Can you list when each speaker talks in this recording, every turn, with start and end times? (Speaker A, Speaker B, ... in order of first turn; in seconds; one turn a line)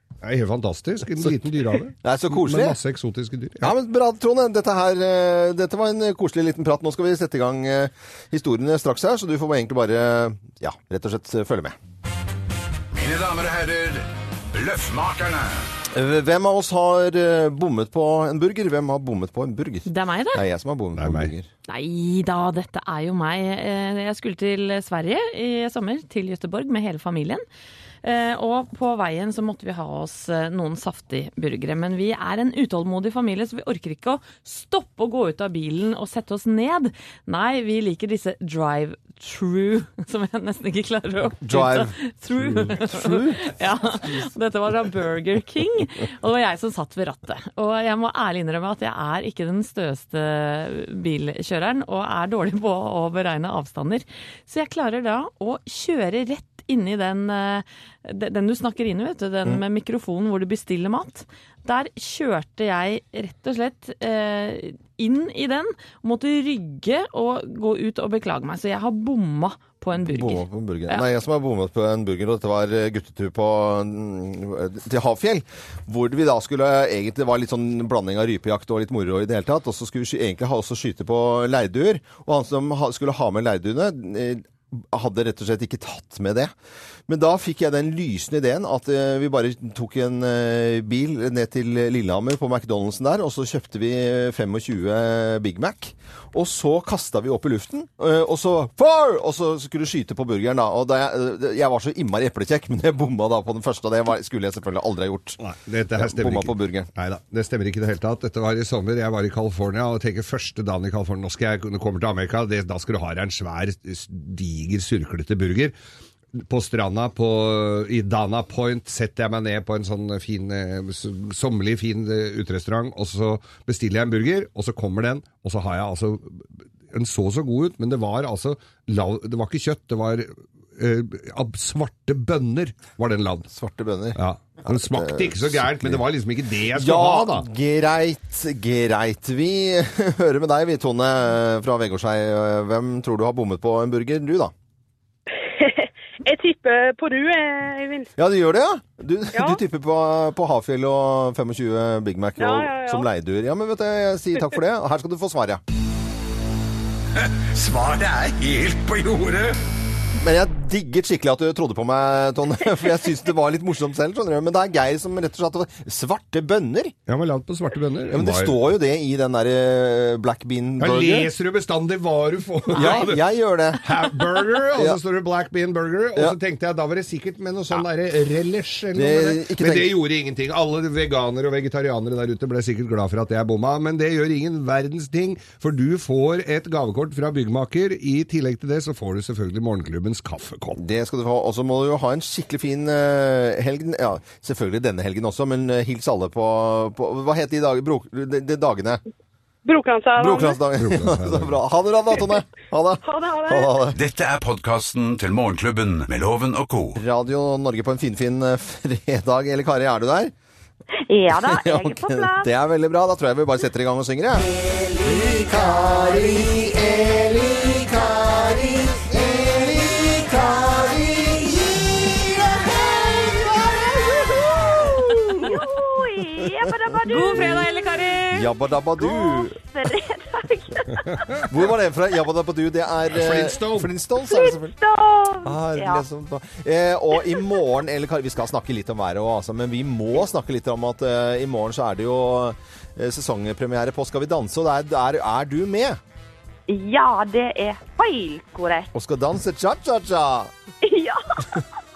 Speaker A: 0.2-3.7
Speaker B: 2.0-2.8
Speaker B: 3.6-11.8
Speaker C: 12.9-15.7
Speaker B: 15.9-21.5
Speaker D: 19.9-20.4
Speaker A: 21.0-21.3
Speaker D: 21.7-27.4
Speaker D: 28.0-71.0
Speaker B: 41.4-42.0
Speaker B: 42.7-43.5
Speaker B: 70.0-86.5
Speaker B: 87.1-105.4
Speaker A: 105.4-115.7
Speaker B: 105.9-106.9
Speaker A: 116.4-133.5
Speaker B: 133.5-136.0
Speaker A: 134.2-137.5
Speaker B: 136.7-144.5
Speaker E: 145.6-148.1
Speaker B: 148.2-155.6
Speaker E: 149.3-149.6
Speaker E: 152.4-153.1
Speaker C: 157.2-159.6
Speaker B: 160.2-166.9
Speaker A: 167.1-168.6
Speaker B: 168.1-171.3
Speaker A: 170.8-173.2
Speaker B: 172.7-173.9
Speaker A: 173.8-190.8
Speaker B: 178.9-180.0
Speaker B: 190.8-199.0
Speaker E: 199.6-200.6
Speaker B: 200.2-204.0
Speaker A: 200.8-201.6
Speaker E: 203.0-203.9
Speaker C: 203.9-207.0
Speaker B: 206.9-210.3
Speaker F: 211.1-212.5
Speaker B: 211.3-223.8
Speaker F: 223.6-227.7
Speaker B: 224.9-225.6
Speaker D: 227.1-228.5
Speaker B: 228.3-229.6
Speaker F: 229.0-231.4
Speaker B: 231.5-234.7
Speaker A: 233.1-233.9
Speaker F: 234.2-236.0
Speaker B: 235.4-246.0
Speaker F: 246.7-248.9
Speaker B: 248.9-250.5
Speaker F: 250.8-251.7